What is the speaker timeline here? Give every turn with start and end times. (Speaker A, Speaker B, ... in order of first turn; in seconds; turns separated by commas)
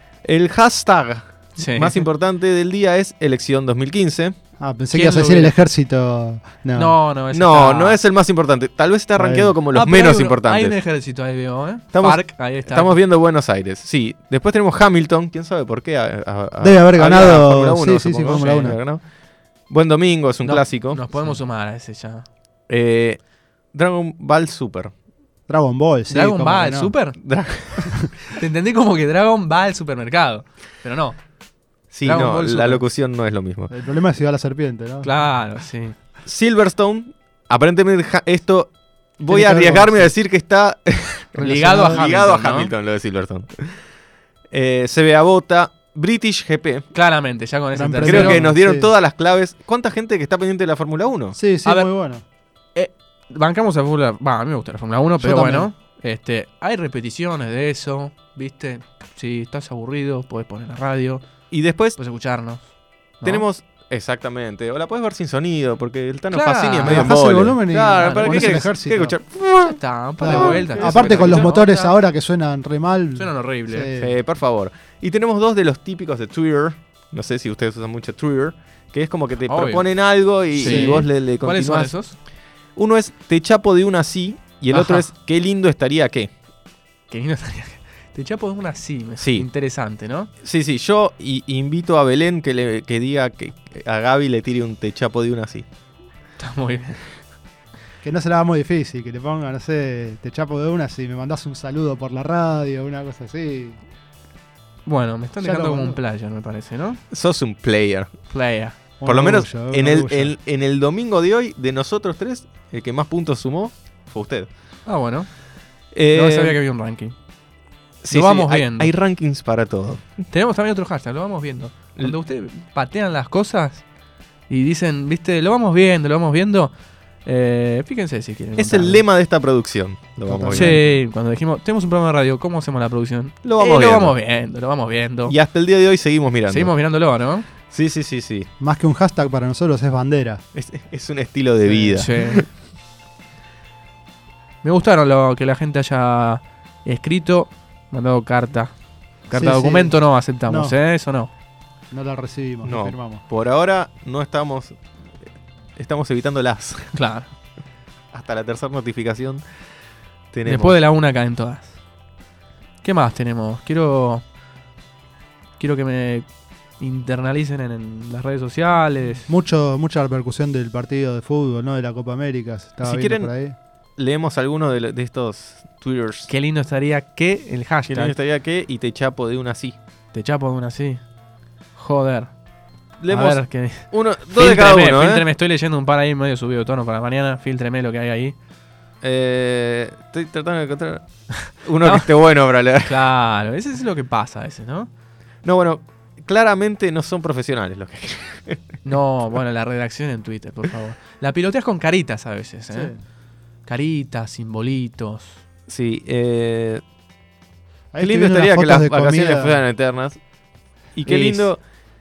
Speaker A: 0.2-4.3, Speaker B: 1.6-2.1, Speaker C: 4.6-7.0, Speaker B: 4.9-5.5, Speaker B: 6.7-8.0, Speaker A: 7.3-10.8, Speaker C: 9.2-9.5, Speaker B: 9.7-12.9, Speaker A: 11.9-19.0, Speaker C: 16.6-18.8, Speaker B: 18.3-18.8, Speaker A: 19.6-21.0, Speaker B: 20.4-22.2, Speaker A: 22.7-23.2, Speaker A: 23.7-24.9, Speaker C: 25.5-26.9, Speaker B: 26.1-27.2, Speaker A: 27.2-28.1, Speaker B: 28.3-31.2, Speaker A: 31.9-33.7, Speaker B: 32.0-32.8, Speaker C: 33.7-35.1, Speaker B: 35.0-36.0, Speaker A: 36.2-43.5, Speaker C: 39.3-40.1, Speaker C: 41.4-42.1, Speaker B: 41.4-42.7, Speaker A: 44.5-46.9, Speaker B: 46.9-48.4, Speaker C: 47.7-48.9, Speaker A: 48.0-51.4, Speaker C: 51.3-52.2, Speaker B: 52.7-61.2, Speaker C: 55.2-55.7, Speaker A: 61.5-62.0, Speaker B: 61.9-62.6, Speaker B: 63.2-63.4, Speaker A: 63.2-71.5, Speaker B: 66.3-67.1, Speaker C: 66.8-69.2, Speaker B: 67.9-68.6, Speaker B: 69.7-72.0, Speaker C: 70.2-74.2, Speaker B: 73.2-73.9, Speaker A: 74.0-81.9, Speaker B: 79.4-79.9, Speaker B: 80.5-82.2, Speaker C: 80.6-81.0, Speaker A: 82.8-86.3, Speaker B: 84.7-85.1, Speaker B: 87.1-90.3, Speaker A: 89.2-89.5, Speaker A: 90.4-95.6, Speaker B: 96.4-97.0, Speaker C: 98.0-103.8, Speaker B: 104.8-107.0, Speaker C: 105.4-106.0, Speaker A: 107.1-108.1, Speaker B: 108.3-108.8, Speaker C: 109.0-110.3, Speaker A: 109.0-114.5, Speaker B: 114.8-115.3, Speaker A: 115.9-116.6, Speaker B: 116.1-117.1, Speaker A: 118.0-120.0, Speaker B: 118.1-118.9, Speaker B: 120.3-123.8, Speaker B: 124.5-126.7, Speaker B: 127.2-129.0, Speaker A: 128.6-130.8, Speaker C: 130.2-131.0, Speaker B: 130.5-135.3, Speaker A: 133.4-134.2, Speaker A: 135.2-136.7, Speaker B: 136.5-137.5, Speaker A: 137.7-138.5, Speaker C: 138.6-140.4, Speaker A: 140.5-142.4, Speaker C: 141.6-142.1, Speaker B: 141.9-142.4, Speaker B: 144.6-148.7, Speaker B: 149.3-151.3, Speaker C: 149.3-150.8, Speaker C: 151.9-153.2, Speaker A: 152.6-154.8, Speaker A: 155.8-156.9, Speaker B: 156.9-157.3, Speaker A: 158.1-159.4, Speaker A: 160.3-160.8, Speaker B: 160.4-161.7, Speaker B: 162.8-164.2, Speaker B: 165.6-166.3, Speaker B: 166.8-169.2, Speaker C: 169.2-173.5, Speaker A: 172.8-173.3, Speaker A: 174.0-176.3, Speaker B: 176.3-178.1, Speaker A: 177.9-179.8, Speaker B: 180.1-181.0, Speaker B: 181.8-182.3, Speaker A: 183.0-185.2, Speaker B: 183.1-188.3, Speaker A: 189.0-191.0, Speaker B: 191.4-192.1, Speaker A: 191.6-193.0, Speaker B: 192.8-194.9, Speaker A: 195.4-198.8, Speaker B: 198.8-202.9, Speaker C: 202.7-203.0, Speaker B: 203.7-205.4, Speaker A: 205.7-206.8, Speaker C: 207.9-209.6, Speaker A: 208.0-210.2, Speaker A: 210.9-211.6, Speaker B: 211.1-211.5